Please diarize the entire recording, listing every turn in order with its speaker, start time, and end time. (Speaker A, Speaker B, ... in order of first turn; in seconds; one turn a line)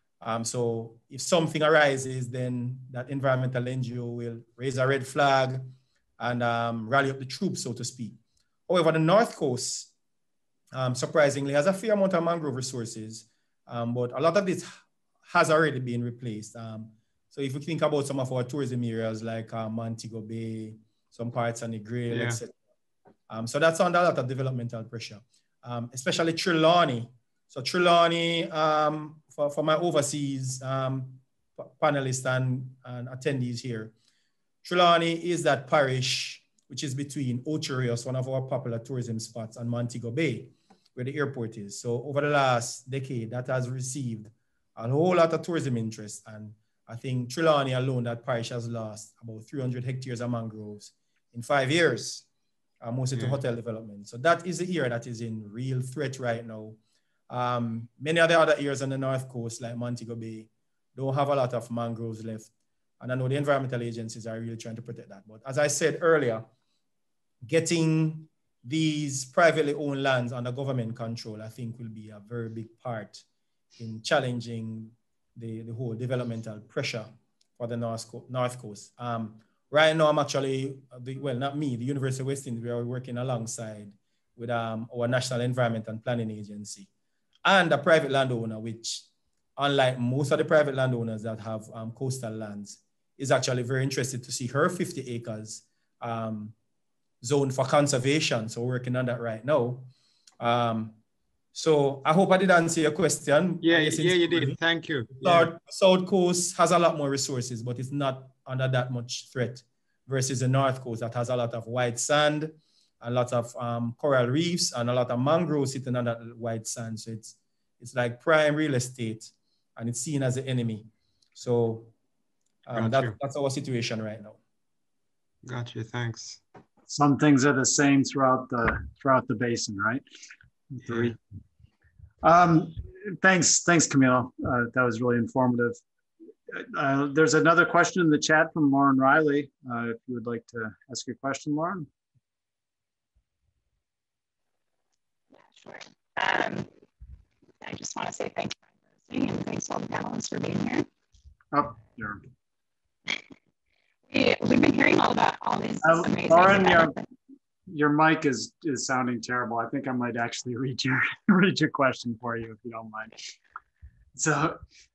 Speaker A: 0.2-9.9
Speaker A: 10.7-22.5
Speaker B: 22.1-22.4
Speaker A: 23.3-33.9
Speaker A: 34.6-52.2
Speaker A: 52.8-66.5
Speaker A: 67.4-73.2
Speaker A: 73.8-86.9
Speaker A: 87.4-89.0
Speaker A: 89.6-96.5
Speaker A: 97.2-101.0
Speaker A: 101.5-121.9
Speaker B: 103.6-105.5
Speaker A: 122.7-124.4
Speaker B: 122.7-123.1
Speaker B: 125.4-126.4
Speaker C: 126.9-130.0
Speaker C: 130.7-131.2
Speaker B: 130.8-131.1
Speaker C: 132.2-135.8
Speaker C: 136.5-141.9
Speaker D: 145.5-146.7
Speaker D: 147.6-150.8
Speaker C: 151.5-152.2
Speaker D: 154.1-157.0
Speaker C: 155.8-156.9
Speaker C: 157.7-163.2
Speaker C: 164.1-164.6